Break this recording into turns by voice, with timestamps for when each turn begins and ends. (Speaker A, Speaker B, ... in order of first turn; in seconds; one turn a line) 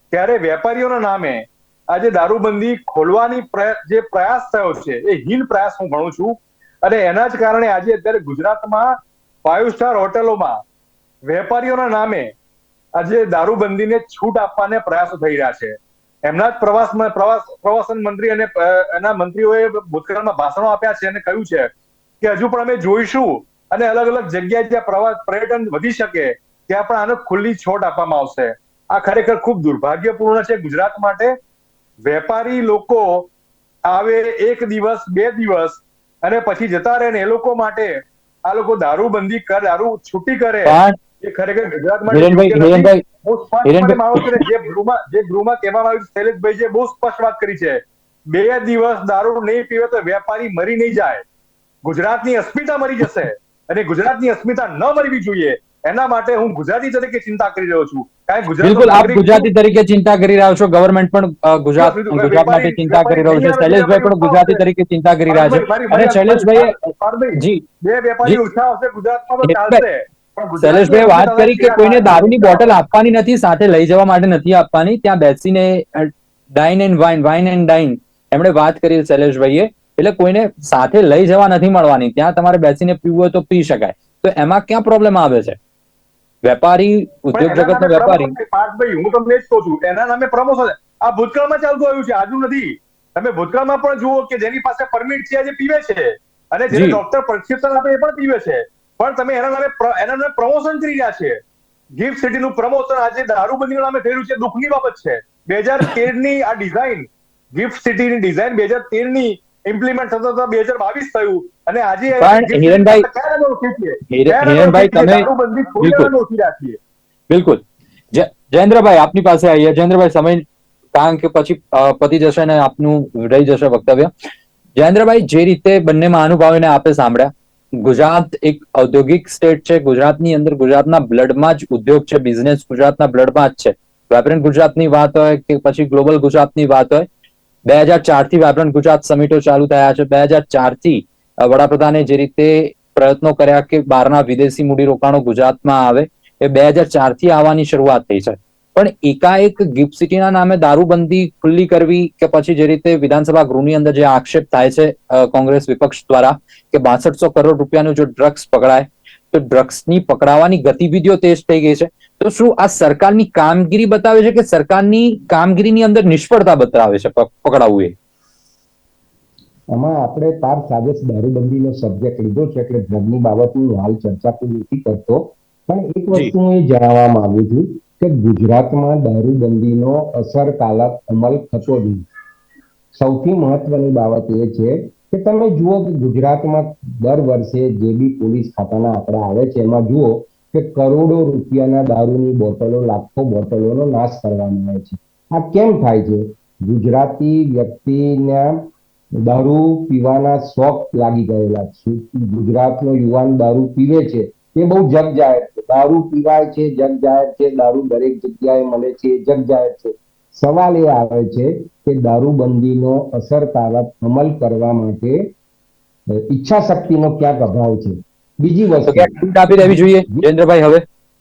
Speaker A: 0.1-10.6
Speaker A: 11.3-12.3
Speaker A: 13.0-21.7
Speaker A: 22.2-31.4
Speaker A: 32.0-33.3
Speaker A: 33.9-51.2
Speaker B: 40.7-41.0
Speaker B: 42.1-43.0
Speaker B: 43.6-44.4
Speaker A: 51.8-59.5
Speaker B: 58.6-66.8
Speaker A: 61.8-64.6
Speaker A: 65.3-72.8
Speaker B: 67.4-67.6
Speaker B: 69.4-69.8
Speaker B: 70.6-85.6
Speaker B: 86.4-88.3
Speaker A: 87.3-101.4
Speaker B: 96.7-97.0
Speaker A: 102.0-116.8
Speaker B: 112.2-113.1
Speaker B: 114.1-115.3
Speaker B: 115.8-116.1
Speaker B: 117.3-117.6
Speaker B: 118.1-124.1
Speaker B: 124.8-137.1
Speaker B: 137.7-167.9
Speaker C: 169.7-182.1
Speaker C: 182.9-215.3
Speaker C: 216.1-220.3
Speaker B: 218.9-220.8